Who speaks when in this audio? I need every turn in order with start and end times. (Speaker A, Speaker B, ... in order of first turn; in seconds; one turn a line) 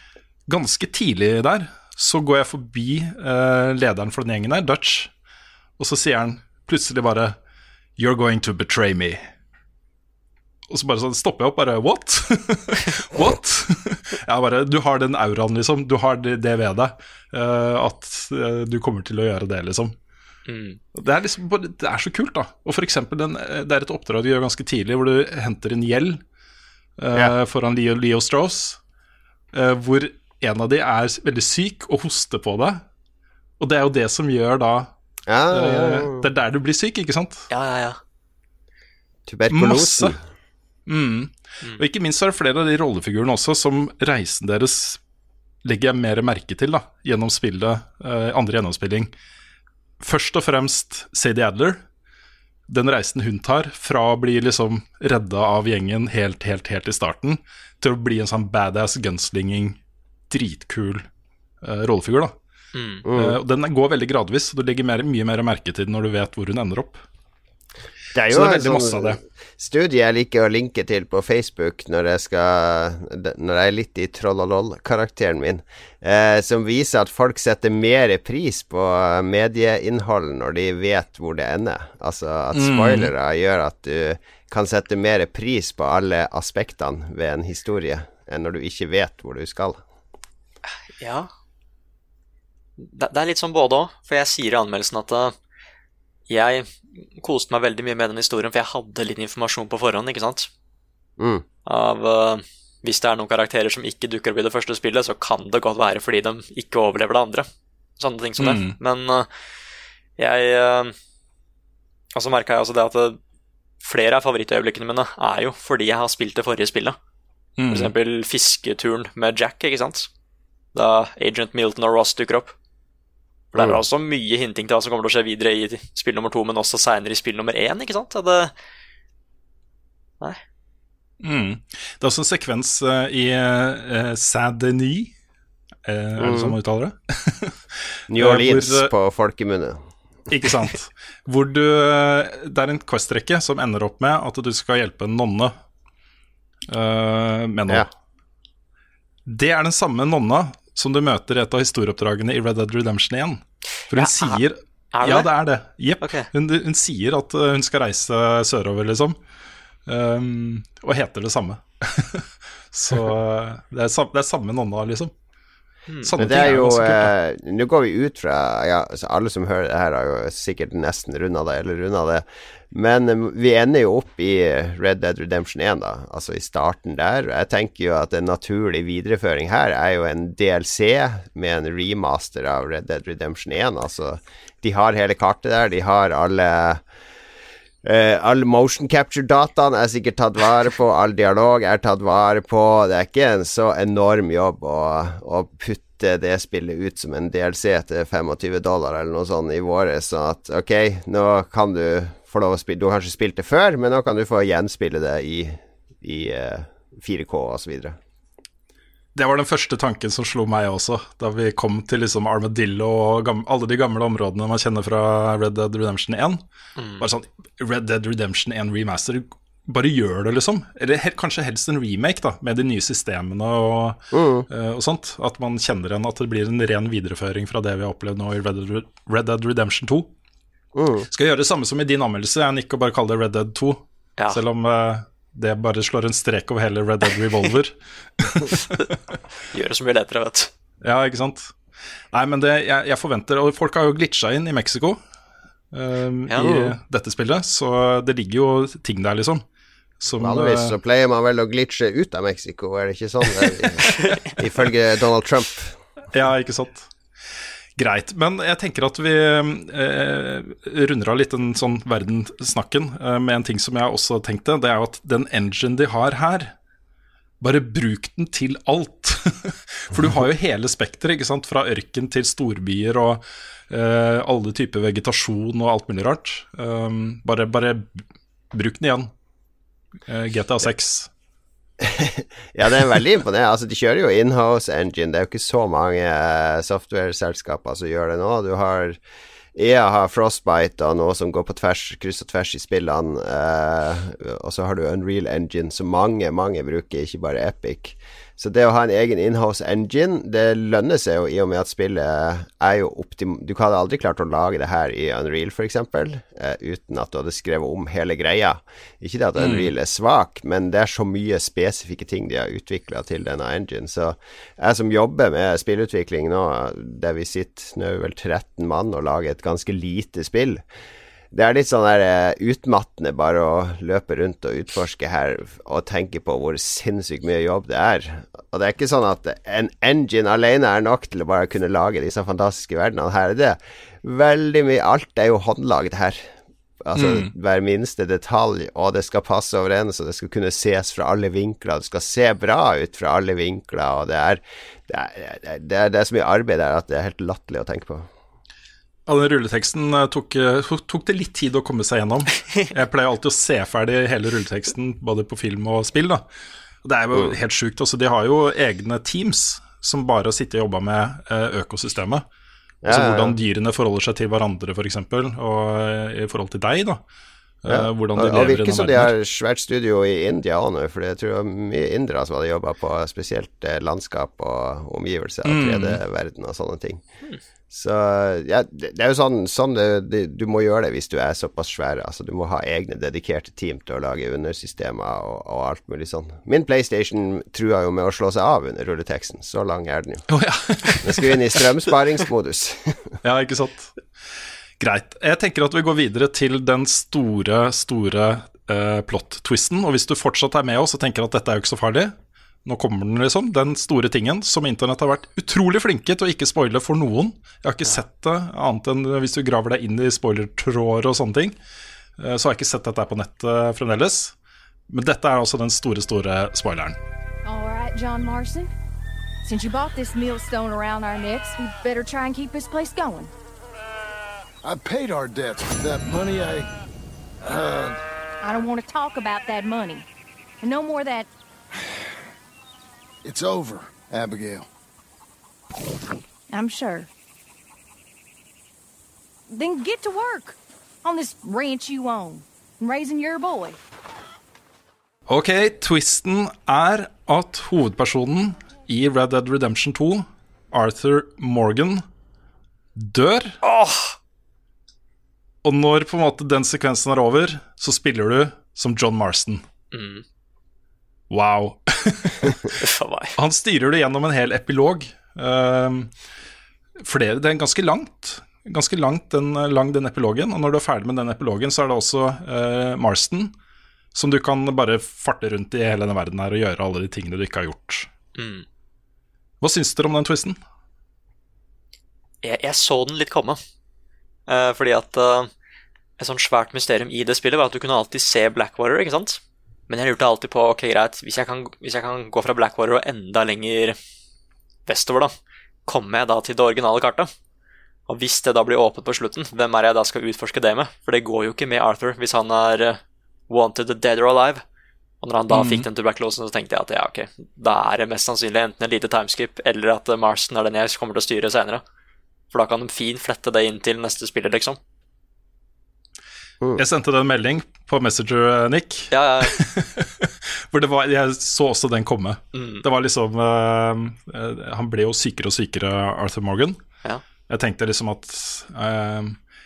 Speaker A: 0.5-5.1
Speaker A: 5.8-7.4
Speaker A: 8.0-9.3
Speaker A: 10.7-19.9
Speaker B: 20.4-20.8
Speaker A: 20.9-26.2
Speaker A: 27.0-28.8
Speaker A: 29.5-32.8
Speaker A: 33.6-34.9
Speaker C: 35.3-36.2
Speaker A: 35.5-37.5
Speaker B: 37.5-38.0
Speaker C: 39.3-40.2
Speaker A: 39.5-40.1
Speaker A: 40.9-45.0
Speaker A: 45.6-49.1
Speaker A: 50.0-51.8
Speaker A: 52.7-59.8
Speaker A: 60.3-61.1
Speaker A: 61.6-62.3
Speaker B: 62.7-63.0
Speaker C: 63.0-63.4
Speaker A: 63.1-67.0
Speaker C: 68.1-89.8
Speaker A: 68.3-69.2
Speaker A: 82.5-83.1
Speaker B: 91.0-91.3
Speaker B: 92.8-95.3
Speaker B: 96.3-100.5
Speaker C: 101.2-101.4
Speaker B: 101.7-107.5
Speaker B: 108.0-109.3
Speaker A: 108.4-108.8
Speaker B: 110.2-110.9
Speaker B: 112.2-113.2
Speaker B: 113.8-117.0
Speaker A: 117.6-117.9
Speaker B: 117.7-120.1
Speaker B: 120.8-122.5
Speaker B: 123.5-128.5
Speaker A: 131.2-135.1
Speaker A: 135.8-138.9
Speaker C: 136.2-136.6
Speaker C: 138.1-139.8
Speaker A: 140.3-145.6
Speaker A: 146.7-147.8
Speaker A: 149.3-159.2
Speaker B: 153.9-154.4
Speaker B: 154.9-155.3
Speaker B: 156.0-156.3
Speaker A: 159.9-165.1
Speaker A: 166.0-167.1
Speaker C: 166.2-186.8
Speaker C: 187.8-208.0
Speaker A: 209.2-216.4
Speaker B: 216.8-217.1
Speaker A: 217.0-230.1
Speaker C: 224.1-224.5
Speaker C: 230.8-231.1
Speaker A: 231.1-238.8
Speaker B: 239.5-240.5
Speaker A: 240.8-241.5
Speaker A: 242.1-245.0
Speaker A: 245.7-249.4
Speaker C: 246.4-246.7
Speaker A: 250.0-250.8
Speaker C: 250.2-255.7
Speaker A: 256.1-256.9
Speaker A: 257.8-266.6
Speaker A: 267.4-278.0
Speaker A: 278.5-279.1
Speaker A: 280.1-281.1
Speaker C: 281.8-289.0
Speaker C: 289.6-320.6
Speaker A: 309.4-309.7
Speaker C: 321.3-336.3
Speaker C: 336.8-348.1
Speaker A: 336.9-337.3
Speaker A: 349.1-356.2
Speaker A: 356.8-362.3
Speaker C: 362.8-363.4
Speaker A: 362.9-367.0
Speaker A: 367.6-369.1
Speaker C: 367.7-377.0
Speaker A: 375.4-376.0
Speaker C: 377.7-390.3
Speaker A: 390.3-391.3
Speaker C: 391.0-393.1
Speaker A: 393.2-393.9
Speaker A: 394.8-411.6
Speaker A: 412.2-414.3
Speaker A: 414.9-417.0
Speaker D: 417.4-418.7
Speaker D: 419.4-423.3
Speaker E: 424.6-426.7
Speaker E: 427.4-428.0
Speaker D: 428.4-430.1
Speaker D: 430.6-431.3
Speaker E: 433.2-434.7
Speaker D: 436.5-437.1
Speaker D: 439.5-443.8
Speaker A: 445.3-452.1
Speaker A: 452.9-453.6
Speaker B: 453.6-454.2
Speaker A: 455.6-459.6
Speaker B: 459.9-460.2
Speaker A: 461.3-462.7
Speaker B: 462.8-463.4
Speaker A: 463.4-466.1
Speaker A: 467.0-473.5
Speaker A: 474.1-478.1
Speaker B: 478.4-478.6
Speaker A: 479.6-480.6
Speaker B: 482.4-483.6
Speaker B: 484.5-485.5
Speaker B: 486.2-493.9
Speaker B: 494.9-495.3
Speaker B: 495.9-497.3
Speaker B: 498.1-504.6
Speaker B: 505.2-511.8
Speaker A: 505.5-505.9
Speaker B: 512.5-514.8
Speaker A: 516.8-526.8
Speaker B: 519.1-519.6
Speaker B: 522.5-522.8
Speaker A: 527.5-529.4